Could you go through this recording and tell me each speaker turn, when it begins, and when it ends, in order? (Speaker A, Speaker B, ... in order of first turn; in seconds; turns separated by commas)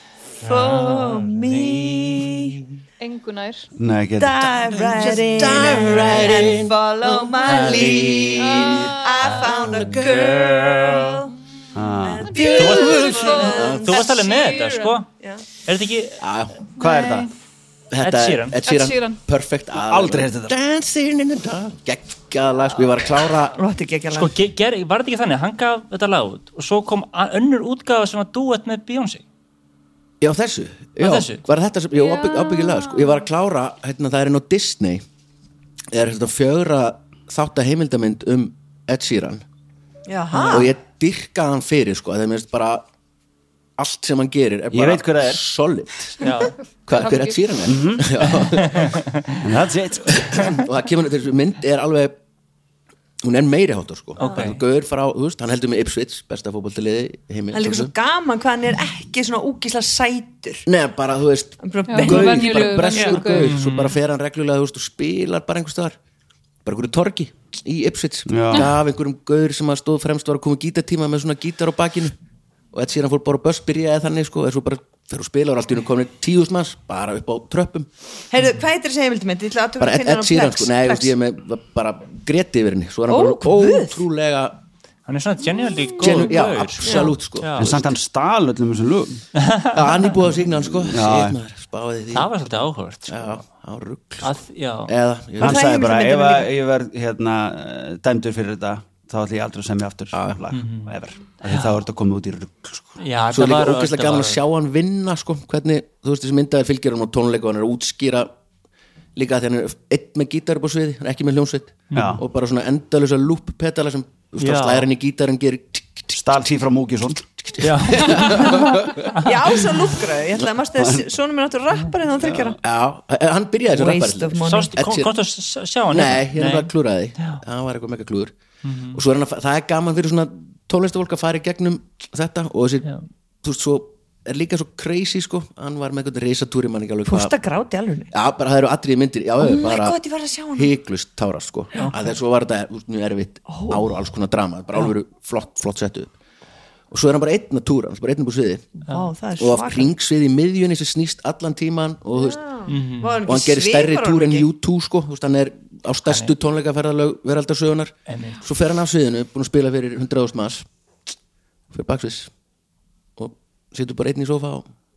Speaker A: 0.4-2.5, Speaker B: 0.4-2.6, Speaker C: 3.0-3.7, Speaker D: 3.8-4.5, Speaker B: 4.2-11.3, Speaker E: 4.7-6.7, Speaker A: 5.8-6.3, Speaker E: 7.4-8.9, Speaker A: 7.5-8.1, Speaker C: 8.4-9.3, Speaker A: 8.7-10.7, Speaker D: 11.7-12.3, Speaker B: 12.0-14.2, Speaker C: 12.3-15.0, Speaker A: 12.5-15.1, Speaker E: 12.6-13.9, Speaker A: 15.7-16.2, Speaker E: 16.2-16.5, Speaker D: 16.8-17.3, Speaker C: 16.8-17.3, Speaker E: 17.9-23.5, Speaker A: 18.0-18.6, Speaker C: 18.6-19.2, Speaker D: 19.7-20.5, Speaker B: 23.5-24.3, Speaker A: 24.1-29.2, Speaker E: 30.2-35.0, Speaker A: 31.0-31.4, Speaker C: 31.9-33.2, Speaker E: 35.9-39.4, Speaker B: 40.1-40.7, Speaker A: 40.3-40.6, Speaker E: 40.5-42.8, Speaker E: 43.8-46.2, Speaker D: 44.7-45.4, Speaker A: 46.2-46.5, Speaker E: 46.9-48.9, Speaker C: 46.9-47.4, Speaker D: 47.6-48.2, Speaker A: 48.7-49.1, Speaker D: 49.4-50.6, Speaker E: 50.1-52.1, Speaker E: 53.2-57.9, Speaker A: 54.2-54.6, Speaker B: 57.5-60.6, Speaker E: 60.6-66.0, Speaker B: 61.6-63.1, Speaker C: 61.9-63.5, Speaker A: 63.2-63.9, Speaker E: 66.6-72.1, Speaker D: 68.3-68.7, Speaker E: 72.7-77.9, Speaker B: 78.3-81.1, Speaker E: 79.8-84.6, Speaker B: 83.1-84.0, Speaker A: 85.1-87.7, Speaker E: 86.0-87.9, Speaker B: 86.8-87.1, Speaker D: 87.6-89.2, Speaker A: 89.4-89.7, Speaker E: 89.7-92.3, Speaker D: 90.9-91.4, Speaker A: 92.1-93.2, Speaker E: 93.1-94.3, Speaker A: 94.2-94.9, Speaker E: 94.9-95.7, Speaker D: 95.4-103.0, Speaker B: 95.4-96.5, Speaker E: 100.1-100.4, Speaker A: 100.5-100.9, Speaker A: 101.4-101.8, Speaker A: 103.0-104.4, Speaker E: 103.3-108.3, Speaker E: 109.2-116.2, Speaker D: 111.9-112.2, Speaker A: 114.4-114.9, Speaker D: 116.1-117.3, Speaker E: 117.5-119.1, Speaker A: 117.6-119.3, Speaker B: 119.2-122.6, Speaker D: 120.8-121.0, Speaker E: 122.6-125.1, Speaker B: 123.7-124.7, Speaker A: 124.5-127.4, Speaker E: 125.9-128.3, Speaker A: 128.6-129.0, Speaker E: 128.9-132.9, Speaker E: 133.4-137.3, Speaker B: 137.1-138.1, Speaker E: 138.1-140.0, Speaker B: 139.4-140.7, Speaker E: 140.5-146.1, Speaker B: 143.5-143.8, Speaker E: 146.9-148.8, Speaker B: 148.9-149.9, Speaker E: 149.4-152.4, Speaker B: 152.1-154.5, Speaker A: 152.7-153.2, Speaker E: 153.2-160.7, Speaker A: 156.1-156.3, Speaker A: 158.1-158.4, Speaker E: 161.7-162.3, Speaker E: 163.2-164.6